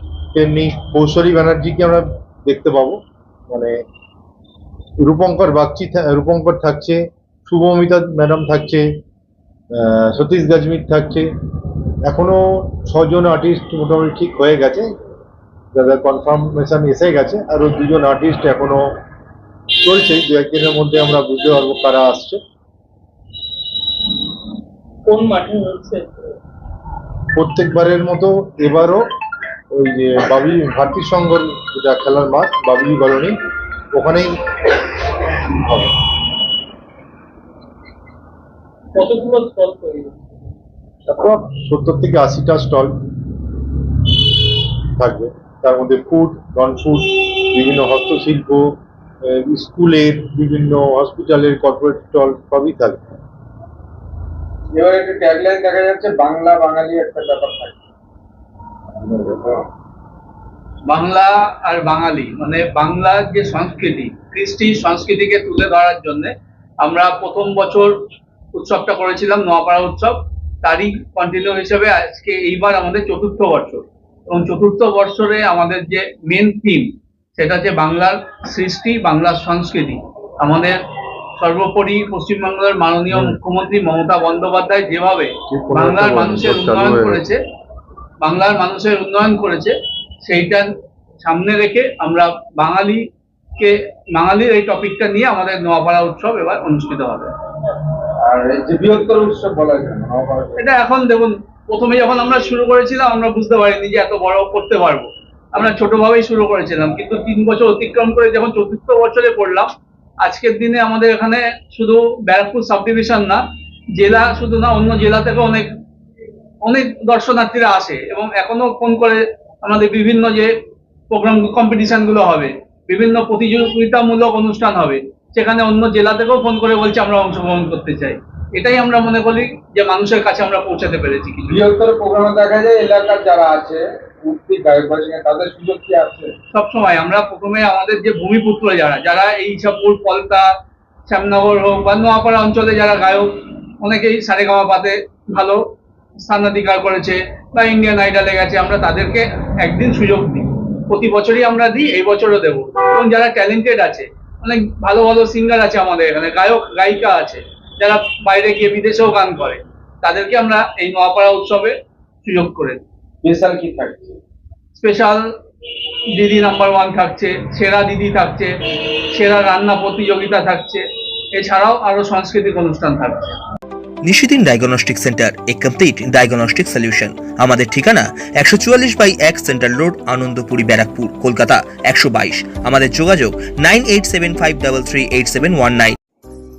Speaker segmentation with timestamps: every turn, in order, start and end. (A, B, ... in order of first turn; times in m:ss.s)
0:00.4-0:03.0 A
0:03.5-0:03.8 A
0:05.0-0:08.8 A
0:09.8-0:11.3 A
0:12.1-0:14.8 A
0:15.8-0:18.8 A
0:19.8-0:22.4 A
0:25.1-0:26.3 B
0:27.4-0:29.0 A
0:29.8-0:33.4 A
0:33.9-0:35.9 A
0:39.0-0:40.1 B
0:41.1-0:42.9 A
0:45.0-0:48.7 A
0:49.3-0:53.0 A
0:54.7-0:57.8 C
0:59.0-0:59.6 C
1:00.9-1:07.9 D
1:08.5-1:20.8 D
1:21.4-1:27.4 D
1:23.1-1:23.4 A
1:25.5-1:27.2 A
1:28.2-1:30.7 D
1:31.2-1:33.0 D
1:33.6-1:37.3 D
1:38.2-1:40.6 C
1:40.6-1:49.7 D
1:50.2-1:53.4 D
1:54.0-1:55.7 D
1:56.6-2:00.5 D
2:01.1-2:11.6 D
2:11.5-2:16.3 C
2:16.5-2:20.4 D
2:21.1-2:25.6 D
2:26.2-2:42.8 D
2:43.2-2:44.2 C
2:44.8-2:45.2 D
2:46.2-2:48.5 D
2:49.1-2:50.8 D
2:51.4-2:53.4 D
2:54.0-3:06.0 E